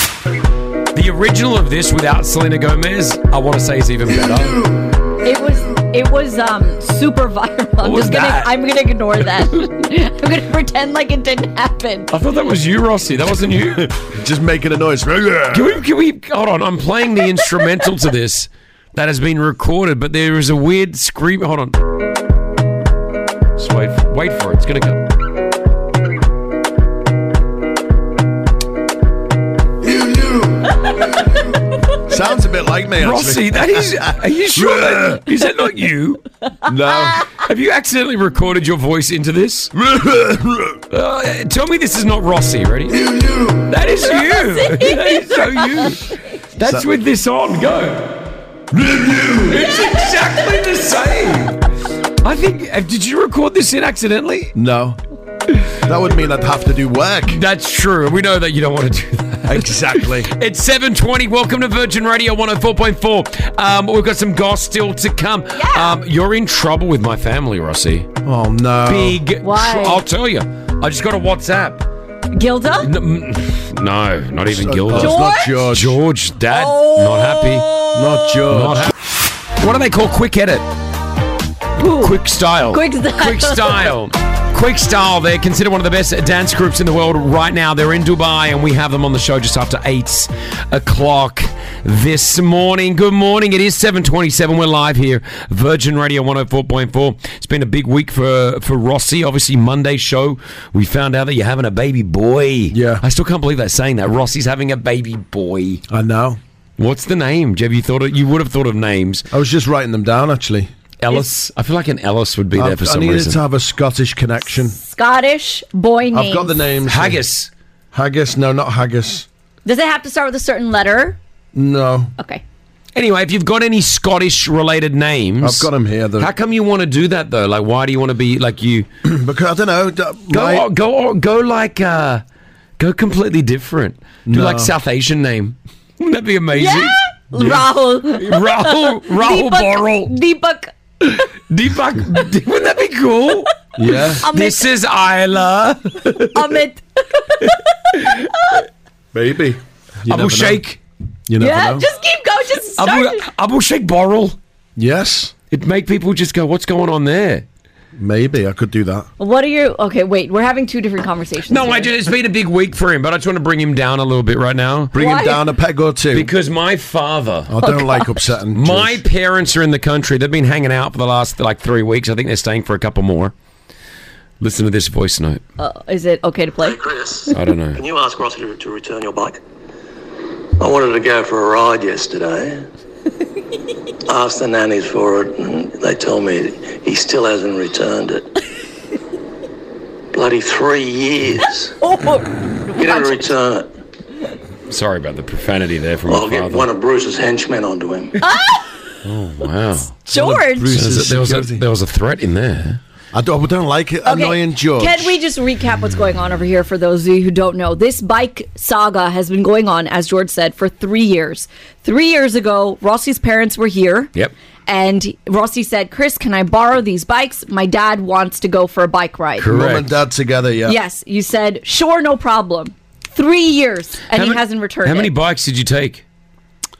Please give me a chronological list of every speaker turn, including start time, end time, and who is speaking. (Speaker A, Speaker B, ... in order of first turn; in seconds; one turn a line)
Speaker A: 0.9-4.6
Speaker B: 5.2-12.1
Speaker A: 7.8-8.6
Speaker A: 12.1-13.9
Speaker C: 13.8-15.8
Speaker A: 15.5-21.8
Speaker A: 23.6-25.0
Speaker C: 29.8-30.7
Speaker C: 32.1-35.2
Speaker A: 33.0-36.2
Speaker C: 36.7-37.2
Speaker A: 37.3-39.7
Speaker C: 39.7-40.8
Speaker A: 40.9-43.1
Speaker C: 42.9-43.7
Speaker A: 43.6-46.1
Speaker B: 44.1-45.9
Speaker A: 46.6-48.2
Speaker C: 46.6-46.9
Speaker C: 48.7-49.6
Speaker A: 49.4-51.6
Speaker A: 52.2-54.5
Speaker C: 54.5-55.0
Speaker C: 55.9-57.4
Speaker A: 57.3-68.1
Speaker C: 59.5-60.3
Speaker B: 65.6-66.0
Speaker C: 68.2-69.2
Speaker A: 68.9-71.8
Speaker B: 69.4-70.0
Speaker B: 72.3-72.9
Speaker A: 72.8-77.7
Speaker C: 74.5-76.0
Speaker B: 74.9-75.6
Speaker B: 76.5-78.4
Speaker C: 77.9-78.9
Speaker A: 78.5-78.9
Speaker A: 79.6-80.6
Speaker B: 81.8-82.2
Speaker A: 82.0-105.8
Speaker B: 82.7-83.9
Speaker C: 102.7-103.0
Speaker C: 105.9-106.4
Speaker A: 106.8-109.3
Speaker C: 109.3-110.7
Speaker A: 111.0-113.4
Speaker C: 112.5-114.8
Speaker B: 114.6-116.6
Speaker C: 116.1-117.2
Speaker A: 116.9-117.5
Speaker C: 117.9-119.3
Speaker B: 119.7-121.2
Speaker C: 121.5-122.1
Speaker B: 122.2-122.4
Speaker A: 123.0-125.7
Speaker C: 125.4-126.3
Speaker A: 126.2-128.9
Speaker C: 129.0-130.7
Speaker A: 130.3-132.2
Speaker A: 132.8-137.6
Speaker C: 134.3-134.7
Speaker B: 136.6-140.7
Speaker A: 138.1-140.1
Speaker A: 141.0-143.5
Speaker C: 143.8-144.2
Speaker B: 143.9-144.7
Speaker A: 144.2-146.4
Speaker B: 146.3-148.1
Speaker C: 149.1-150.6
Speaker A: 150.1-150.8
Speaker C: 151.3-151.9
Speaker B: 151.4-153.3
Speaker A: 152.8-154.4
Speaker C: 154.8-155.3
Speaker A: 155.5-157.4
Speaker C: 157.9-159.1
Speaker B: 159.2-161.9
Speaker A: 161.5-164.9
Speaker C: 164.9-166.3
Speaker B: 165.0-165.4
Speaker A: 166.1-167.6
Speaker C: 167.5-169.0
Speaker B: 167.6-168.2
Speaker A: 168.5-173.3
Speaker A: 174.4-175.4
Speaker B: 175.6-176.8
Speaker D: 176.6-179.4
Speaker A: 177.3-177.8
Speaker D: 180.6-182.7
Speaker D: 184.1-188.3
Speaker D: 190.1-191.7
Speaker B: 191.8-193.2
Speaker D: 192.7-193.7
Speaker A: 194.7-196.7
Speaker D: 196.1-198.2
Speaker B: 198.2-198.8
Speaker A: 199.0-199.9
Speaker B: 200.1-200.8
Speaker C: 200.1-201.6
Speaker A: 200.6-202.8
Speaker C: 203.1-205.2
Speaker B: 204.1-214.1
Speaker B: 214.7-219.5
Speaker A: 219.4-219.9
Speaker C: 219.4-220.8
Speaker B: 220.7-225.1
Speaker A: 224.1-226.0